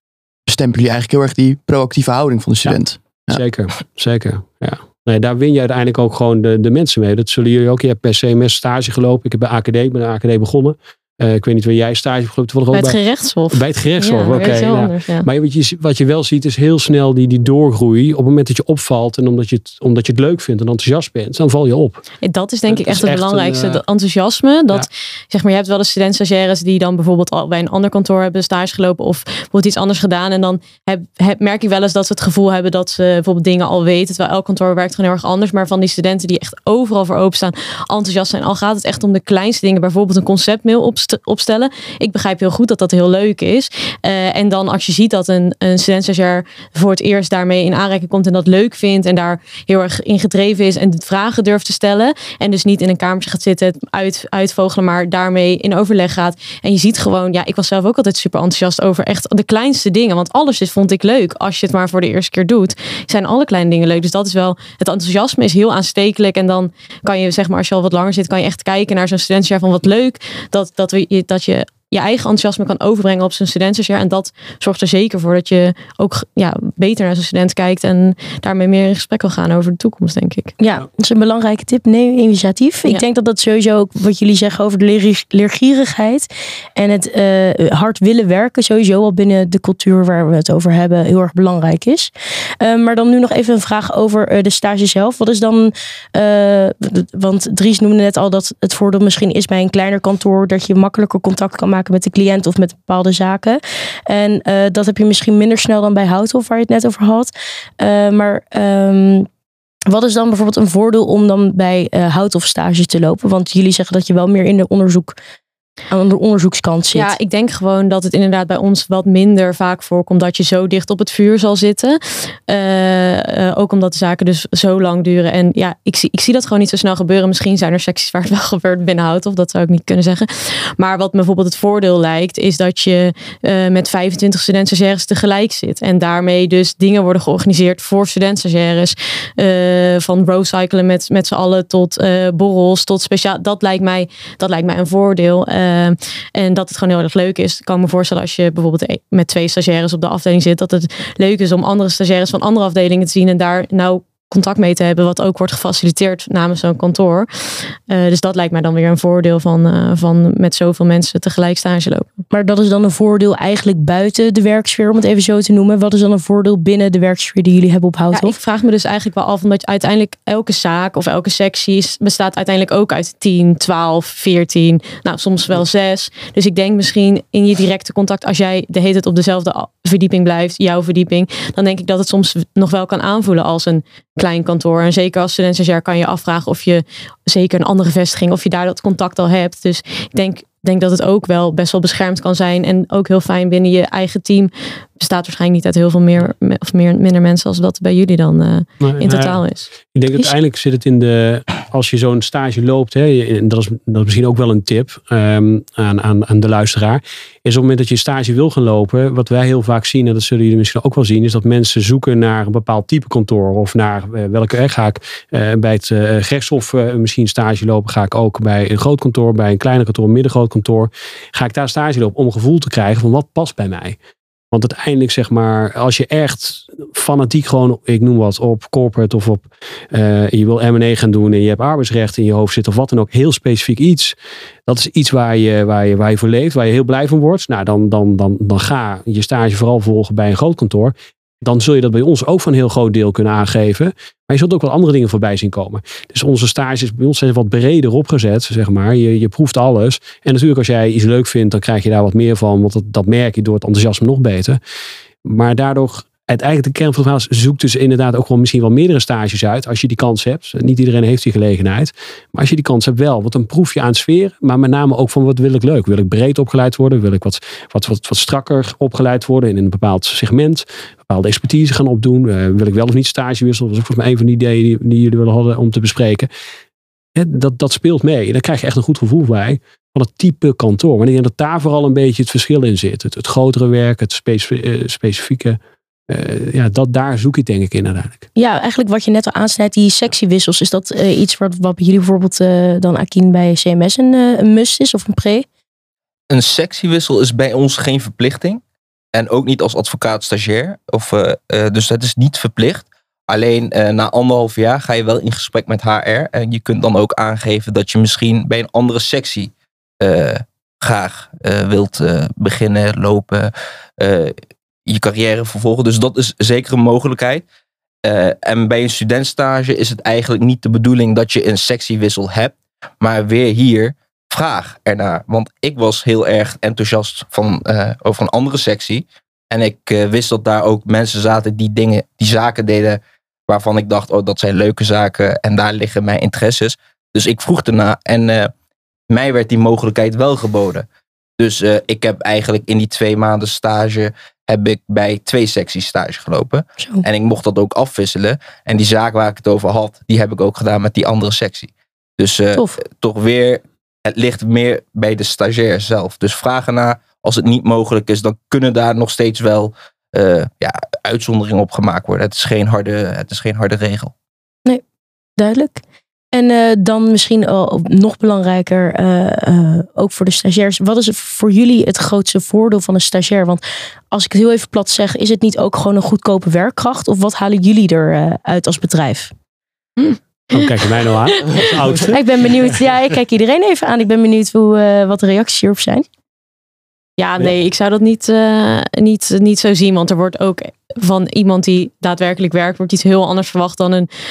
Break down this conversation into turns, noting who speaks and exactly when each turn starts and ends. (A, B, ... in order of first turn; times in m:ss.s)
0:00.5-0:03.4 A
0:03.3-0:13.0 B
0:12.7-0:15.3 C
0:13.5-0:22.0 B
0:22.2-1:20.5 C
0:22.7-0:23.8 B
1:20.6-1:49.3 D
1:49.9-1:55.2 D
1:55.9-1:57.1 D
1:56.9-2:42.1 C
2:42.3-2:48.4 D
2:48.1-3:19.7 C
3:18.8-3:44.0 B
3:44.5-3:54.2 B
3:54.7-4:14.6 B
4:15.2-4:36.3 B
4:37.2-4:48.2 B
4:48.4-4:55.5 D
4:56.3-4:58.6 E
4:59.1-5:14.4 E
5:14.9-5:17.4 E
5:18.0-5:38.5 E
5:39.1-5:40.9 E
5:41.4-6:04.1 E
5:46.8-5:47.0 D
6:05.4-6:05.8 D
6:06.3-6:19.3 D
6:20.0-6:20.8 C
6:20.5-6:22.2 B
6:21.3-6:21.6 C
6:22.1-6:26.1 D
6:27.2-6:34.1 C